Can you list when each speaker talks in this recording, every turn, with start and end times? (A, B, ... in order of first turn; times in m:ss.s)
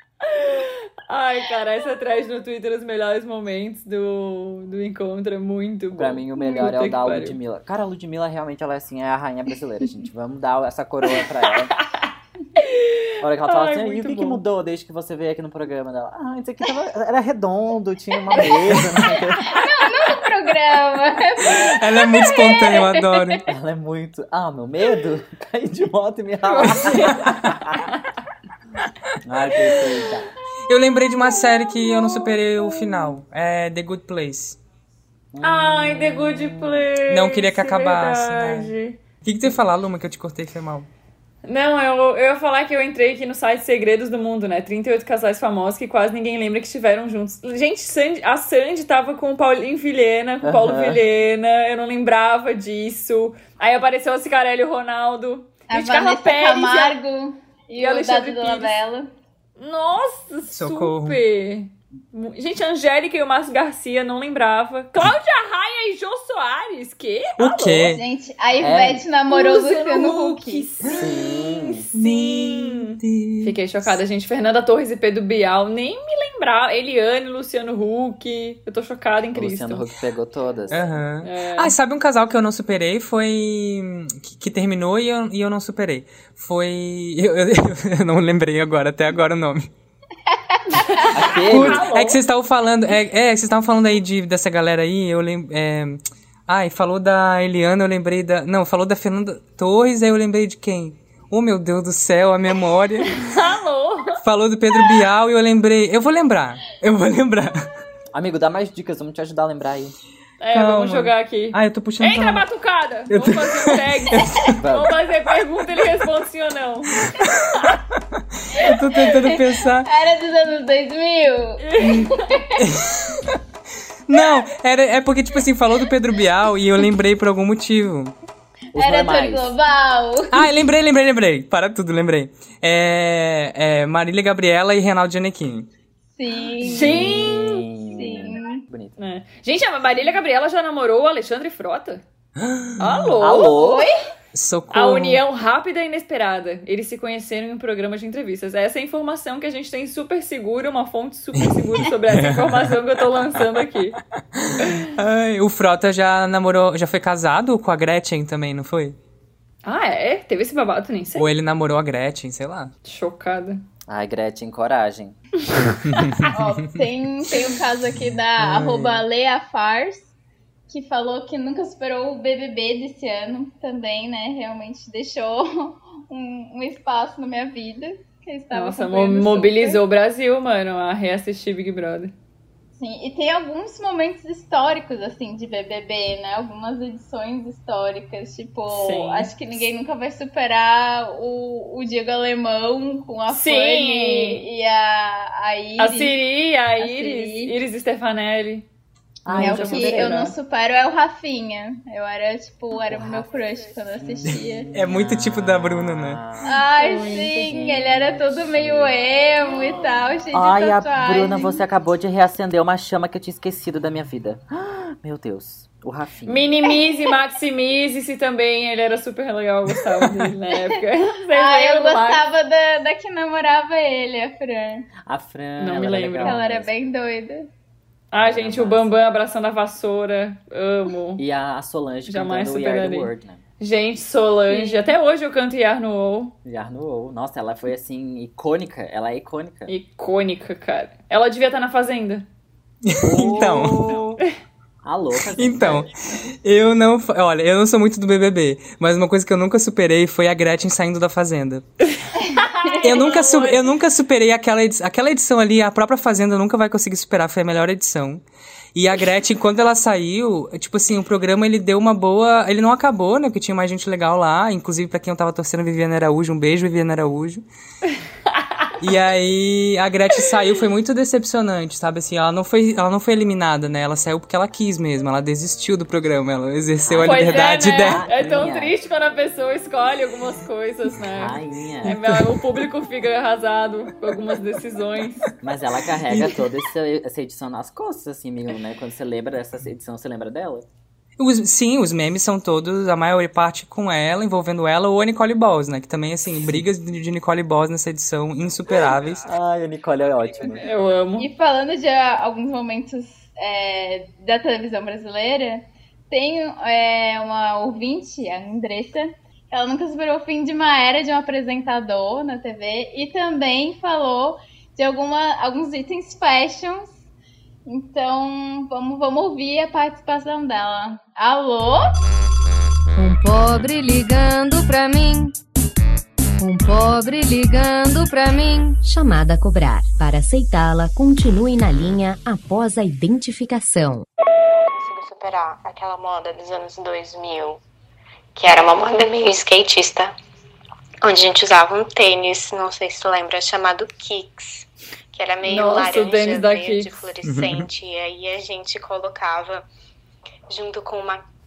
0:00.2-0:07.4 A
0:05.9-0:11.7 B
0:11.1-0:14.4 A
0:13.2-0:19.5 B
0:18.7-0:19.0 C
0:19.4-0:23.4 D
0:21.4-0:23.4 C
0:23.5-0:27.8 B
0:26.5-0:27.3 A
0:26.9-0:27.6 C
0:29.2-0:30.3 B
0:30.7-0:34.6 C
0:31.4-0:33.1 A
0:35.3-0:36.8 B
0:35.4-0:39.0 A
0:37.1-0:38.7 C
0:39.2-0:40.9 C
0:41.4-0:57.0 A
0:50.4-0:51.0 B
0:55.7-0:59.1 D
0:57.8-0:58.8 A
0:59.6-1:08.0 A
1:00.5-1:01.2 C
1:07.4-1:08.0 C
1:07.8-1:10.7 D
1:08.6-1:09.1 B
1:09.3-1:19.9 A
1:10.9-1:11.9 B
1:11.9-1:14.0 C
1:19.3-1:20.9 B
1:20.7-1:29.7 C
1:21.2-1:21.8 A
1:30.5-1:31.0 D
1:30.7-1:32.2 A
1:31.1-1:31.9 B
1:31.5-1:43.2 C
1:43.1-1:44.2 A
1:44.2-1:47.6 C
1:48.1-1:50.0 B
1:50.4-1:57.7 A
1:50.5-1:52.5 C
1:53.1-1:54.6 C
1:54.6-1:54.9 B
1:57.1-1:59.9 C
1:58.6-2:02.6 D
2:01.6-2:02.3 A
2:02.6-2:03.4 C
2:04.1-2:08.1 C
2:08.7-2:09.5 B
2:08.8-2:10.5 D
2:10.3-2:15.7 C
2:16.2-2:17.2 D
2:16.6-2:17.6 A
2:16.7-2:19.0 B
2:17.9-2:18.6 D
2:19.0-2:22.0 A
2:22.4-2:23.1 C
2:22.8-2:23.6 A
2:23.2-2:23.9 B
2:23.5-2:23.9 D
2:24.3-2:25.2 C
2:24.7-2:34.0 A
2:32.1-2:32.8 C
2:34.3-2:39.0 C
2:34.6-2:34.9 A
2:39.6-2:41.3 A
2:41.2-2:42.7 C
2:42.8-2:43.6 A
2:43.9-2:45.2 B
2:45.5-2:45.8 A
2:45.8-2:46.3 C
2:46.3-2:50.1 D
2:48.4-2:49.0 C
2:50.7-2:59.8 D
2:58.5-3:02.1 A
3:02.8-3:16.2 D
3:08.7-3:09.3 A
3:13.3-3:14.4 A
3:15.8-3:18.7 A
3:16.8-3:17.6 D
3:19.2-3:20.2 B
3:19.3-3:20.4 A
3:19.3-3:24.7 D
3:22.9-3:23.3 B
3:24.0-3:29.0 B
3:24.7-3:26.2 C
3:26.4-3:31.6 D
3:26.8-3:27.5 A
3:30.3-3:36.5 B
3:36.3-3:42.2 A
3:36.7-3:37.2 D
3:39.7-3:40.3 C
3:41.3-3:44.9 D
3:45.1-3:46.7 B
3:45.6-3:46.4 A
3:46.2-3:47.5 D
3:48.1-3:51.2 A
3:48.2-3:48.9 B
3:51.2-3:53.4 B
3:52.1-3:56.4 A
3:54.5-3:54.9 D
3:56.4-3:59.7 B
3:59.7-4:02.3 A
4:02.8-4:04.0 C
4:03.0-4:04.2 B
4:04.8-4:05.9 B
4:05.4-4:11.6 C
4:12.0-4:13.6 A
4:12.6-4:13.1 D
4:12.8-4:18.2 C
4:18.8-4:27.5 C
4:28.4-4:28.7 A
4:28.8-4:38.0 C
4:36.8-4:38.7 B
4:37.0-4:45.3 A
4:41.2-4:42.0 B
4:41.9-4:42.3 C
4:45.4-4:50.7 B
4:51.2-4:59.3 C
4:59.3-5:00.7 B
5:00.6-5:01.3 A
5:01.2-5:16.9 D
5:17.7-5:21.9 D
5:23.0-5:25.4 E
5:26.4-5:28.8 E
5:28.8-5:34.0 F
5:34.4-5:37.6 G
5:38.4-5:40.1 G
5:41.0-5:49.7 G
5:45.4-5:47.1 A
5:47.2-5:47.7 C
5:50.5-5:51.2 G